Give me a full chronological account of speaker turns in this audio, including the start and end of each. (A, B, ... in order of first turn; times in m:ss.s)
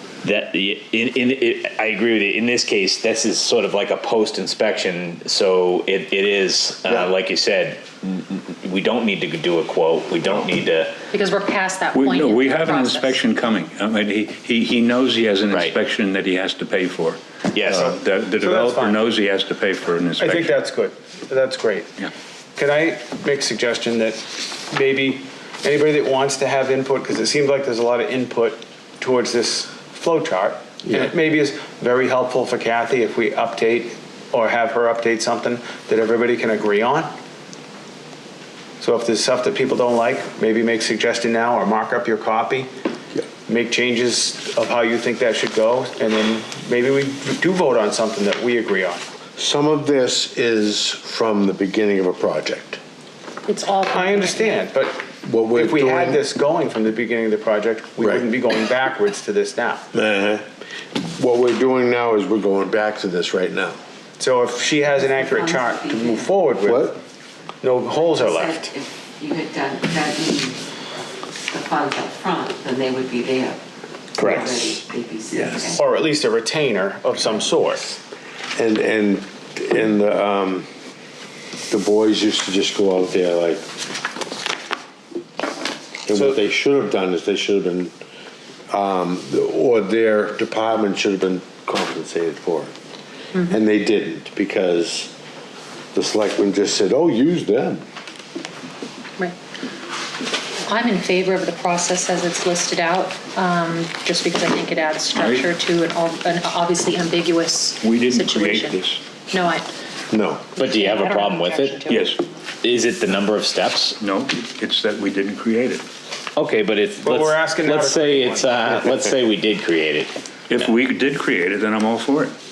0:00.2-0:11.0 A
0:11.1-0:13.2 B
0:11.9-0:20.6 C
0:15.5-0:15.8 A
0:17.5-0:17.9 A
0:17.8-0:19.0 D
0:20.2-0:21.9 D
0:22.6-0:37.1 D
0:38.8-0:42.7 D
0:43.5-0:49.0 D
0:49.4-0:52.8 E
0:53.5-0:54.7 B
0:53.9-0:59.8 D
0:55.2-0:56.2 E
0:59.9-1:00.5 E
1:01.2-1:03.8 E
1:04.2-1:07.0 D
1:05.2-1:06.2 F
1:06.6-1:07.0 E
1:07.6-1:08.7 D
1:08.0-1:10.6 F
1:11.5-1:13.6 F
1:14.2-1:14.8 A
1:14.2-1:15.8 F
1:15.8-1:18.0 D
1:18.6-1:20.7 E
1:21.7-1:23.6 E
1:26.1-1:27.9 E
1:28.7-1:32.7 E
1:33.5-1:35.1 E
1:36.0-1:37.8 E
1:40.7-1:49.7 B
1:45.2-1:45.5 C
1:47.8-1:49.0 C
1:50.1-1:50.6 E
1:50.6-1:52.2 B
1:50.6-1:51.8 A
1:51.9-1:52.2 C
1:52.6-1:54.0 A
1:54.0-1:55.8 C
1:56.4-2:00.1 A
1:57.0-1:58.9 D
2:00.5-2:02.4 C